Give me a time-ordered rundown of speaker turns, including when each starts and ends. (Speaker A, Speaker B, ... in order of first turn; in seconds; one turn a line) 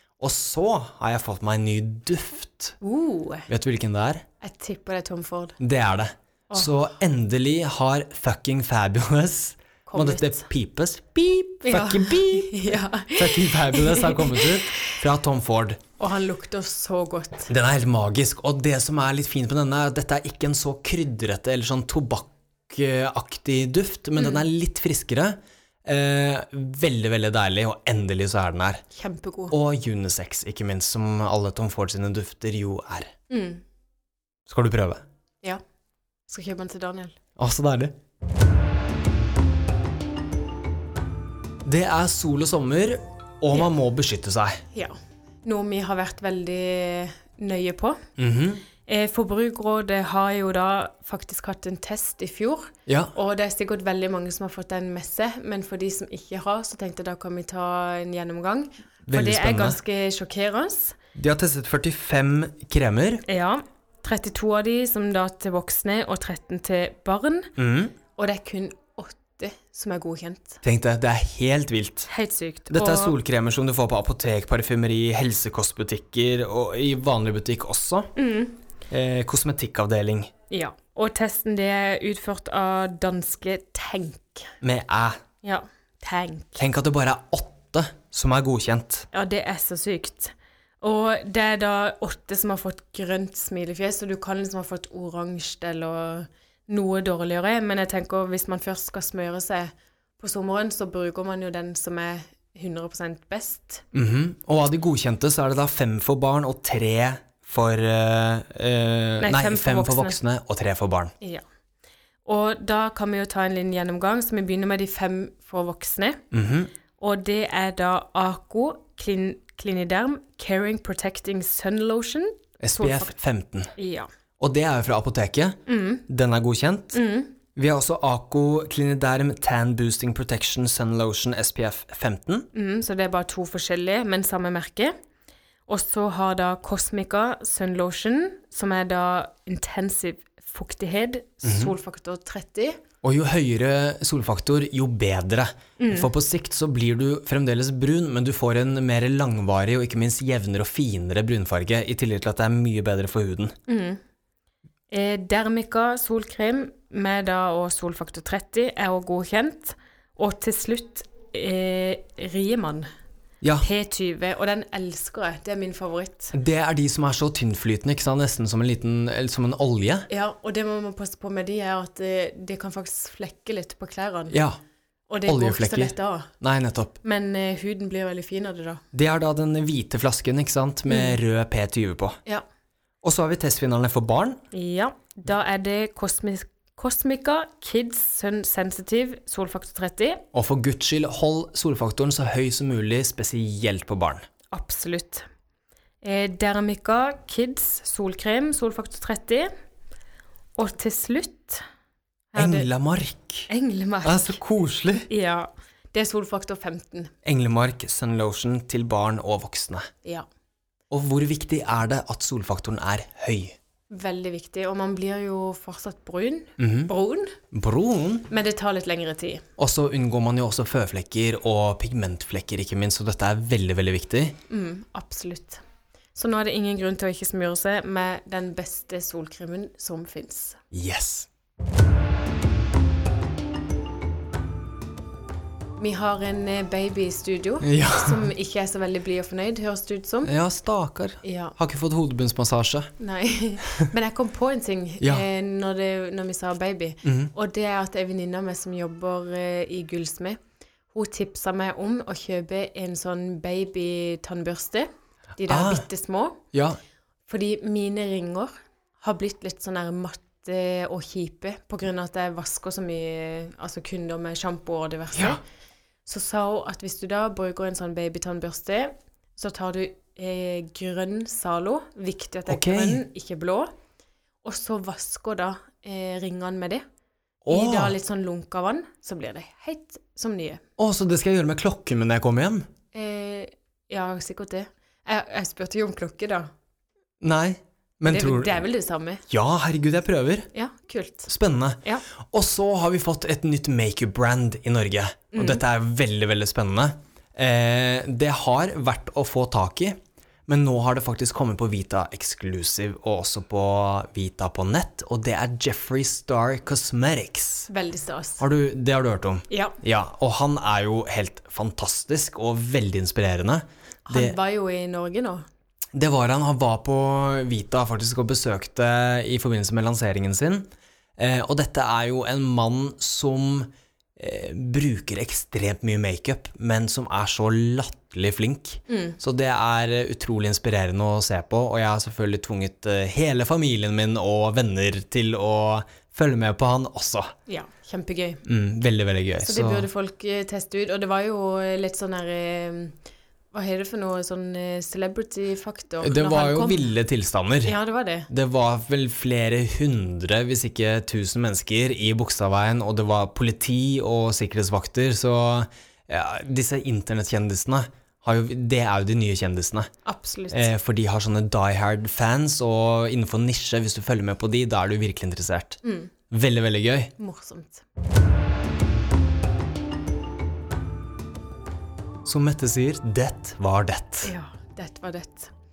Speaker A: 0.2-2.7
Speaker B: 2.8-3.5
Speaker A: 3.5-4.2
Speaker B: 4.4-5.6
Speaker A: 5.6-15.8
Speaker B: 6.5-6.8
Speaker B: 9.8-10.4
Speaker B: 11.6-14.7
Speaker B: 16.0-17.5
Speaker A: 17.5-28.8
Speaker B: 24.2-24.4
Speaker B: 28.9-29.5
Speaker A: 29.5-33.1
Speaker B: 33.3-33.6
Speaker A: 34.5-35.0
Speaker B: 36.3-37.1
Speaker A: 37.4-37.9
Speaker A: 41.6-44.6
Speaker B: 44.7-48.0
Speaker A: 48.2-48.6
Speaker B: 48.9-61.0
Speaker A: 52.9-53.1
Speaker A: 59.0-59.8
Speaker A: 61.1-63.2
Speaker B: 63.2-67.5
Speaker A: 67.6-67.9
Speaker B: 68.2-70.6
Speaker A: 70.6-72.1
Speaker B: 72.1-73.2
Speaker A: 72.7-78.1
Speaker B: 78.2-78.6
Speaker A: 78.9-80.3
Speaker B: 80.5-84.5
Speaker A: 84.6-85.2
Speaker B: 85.4-86.6
Speaker A: 86.6-89.1
Speaker B: 89.1-103.8
Speaker A: 103.9-111.1
Speaker B: 109.2-110.2
Speaker B: 112.2-116.2
Speaker A: 116.3-116.7
Speaker B: 117.0-123.1
Speaker A: 122.6-123.7
Speaker B: 123.8-124.1
Speaker A: 124.4-127.0
Speaker B: 125.7-126.0
Speaker B: 126.9-127.4
Speaker A: 127.5-132.5
Speaker B: 132.5-134.9
Speaker B: 135.7-142.8
Speaker A: 141.4-141.7
Speaker A: 143.0-153.5
Speaker B: 145.8-146.1
Speaker B: 153.7-154.0
Speaker B: 154.9-162.9
Speaker A: 163.4-163.7
Speaker B: 163.6-166.3
Speaker A: 166.3-170.1
Speaker B: 170.1-174.3
Speaker A: 174.3-174.6
Speaker B: 175.1-176.3
Speaker A: 175.3-176.9
Speaker B: 177.0-178.8
Speaker A: 178.9-182.2
Speaker B: 180.9-181.2
Speaker A: 183.0-184.4
Speaker B: 184.5-190.2
Speaker A: 190.3-194.2
Speaker B: 194.5-195.2
Speaker B: 196.0-199.5
Speaker B: 200.6-201.6
Speaker B: 202.3-202.7
Speaker A: 202.4-203.5
Speaker B: 203.5-204.3
Speaker A: 204.0-205.1
Speaker B: 205.1-207.1
Speaker A: 207.2-209.9
Speaker A: 210.9-213.6
Speaker B: 213.9-217.3
Speaker A: 216.6-216.9
Speaker A: 217.5-218.3
Speaker B: 218.3-219.4
Speaker A: 219.6-224.4
Speaker B: 224.5-225.6
Speaker B: 226.2-230.6
Speaker A: 230.7-231.3
Speaker B: 235.8-240.3
Speaker A: 237.6-238.3
Speaker A: 240.2-242.9
Speaker B: 241.2-241.6
Speaker B: 243.0-250.4
Speaker A: 247.0-247.3
Speaker B: 250.9-256.4
Speaker A: 255.5-255.8
Speaker A: 256.5-256.8
Speaker B: 257.3-265.4
Speaker B: 266.1-273.7
Speaker A: 272.5-273.0
Speaker B: 274.4-276.8
Speaker A: 277.4-277.9
Speaker B: 277.5-280.6
Speaker A: 280.8-282.7
Speaker B: 282.9-286.5
Speaker A: 287.2-288.6
Speaker B: 288.1-289.2
Speaker A: 289.3-290.5
Speaker B: 290.5-291.3
Speaker A: 291.3-307.7
Speaker B: 295.3-295.6
Speaker B: 307.7-308.4
Speaker A: 308.4-314.4
Speaker B: 309.5-309.8
Speaker B: 314.1-315.4
Speaker A: 315.9-337.3
Speaker B: 328.9-329.2
Speaker B: 337.5-338.4
Speaker A: 338.4-339.9
Speaker B: 339.4-342.9
Speaker B: 343.5-346.9
Speaker A: 346.0-347.7
Speaker B: 347.6-348.3
Speaker A: 348.3-359.9
Speaker B: 360.0-360.7
Speaker A: 360.5-365.8
Speaker B: 365.8-366.1
Speaker A: 366.3-367.1
Speaker B: 367.2-367.8
Speaker A: 372.2-374.3
Speaker B: 374.2-375.5